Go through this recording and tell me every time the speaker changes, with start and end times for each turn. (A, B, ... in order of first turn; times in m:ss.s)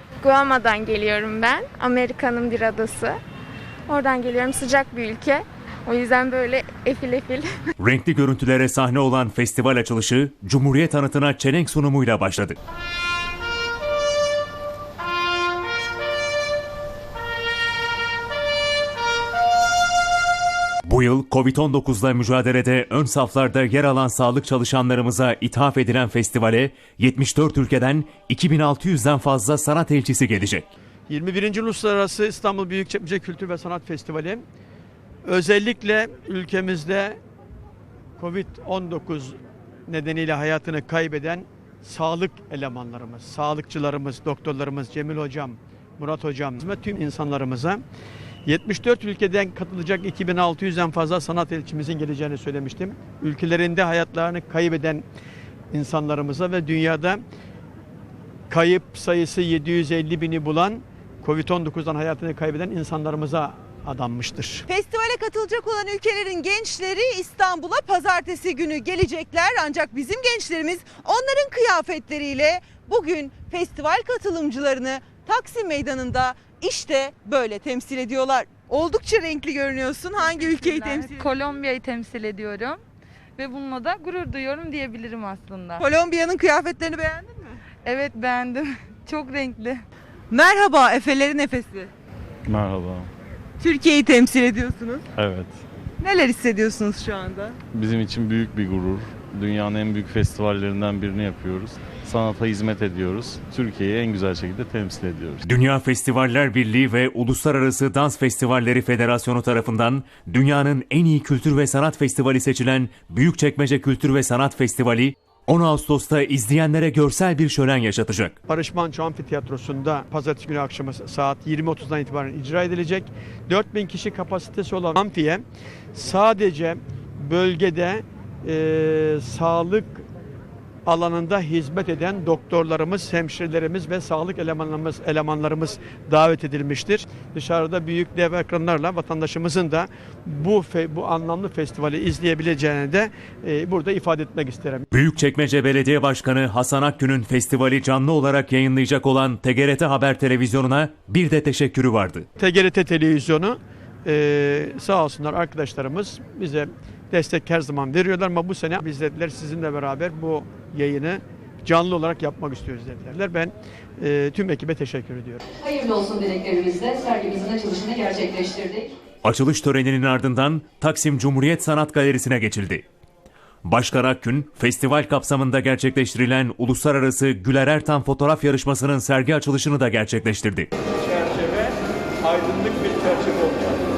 0:00.2-0:03.1 A
0:03.9-0:07.4 A
0:07.8-0:12.6 B
0:20.9-0:30.7 B
0:31.1-0:34.4 C
0:35.2-0:37.2 C
0:38.2-0:39.4 C
0:39.9-0:47.8 C
0:48.5-0:55.0 C
0:55.7-0:57.2 C
0:58.5-1:04.7 C
1:04.7-1:21.4 D
1:20.2-1:22.8 E
1:23.4-1:25.9 E
1:25.8-1:27.6 D
1:27.8-1:29.8 E
1:30.3-1:31.9 D
1:32.4-1:33.1 F
1:33.6-1:35.1 D
1:35.2-1:35.6 F
1:36.0-1:37.6 D
1:37.7-1:45.4 F
1:45.4-1:58.4 B
1:58.5-2:10.1 C
2:10.8-2:24.9 C
2:24.9-2:32.3 B
2:32.4-2:45.4 C
2:45.6-2:48.9 G
2:49.2-2:52.8 B
2:53.6-3:00.7 B
3:01.0-3:03.8 C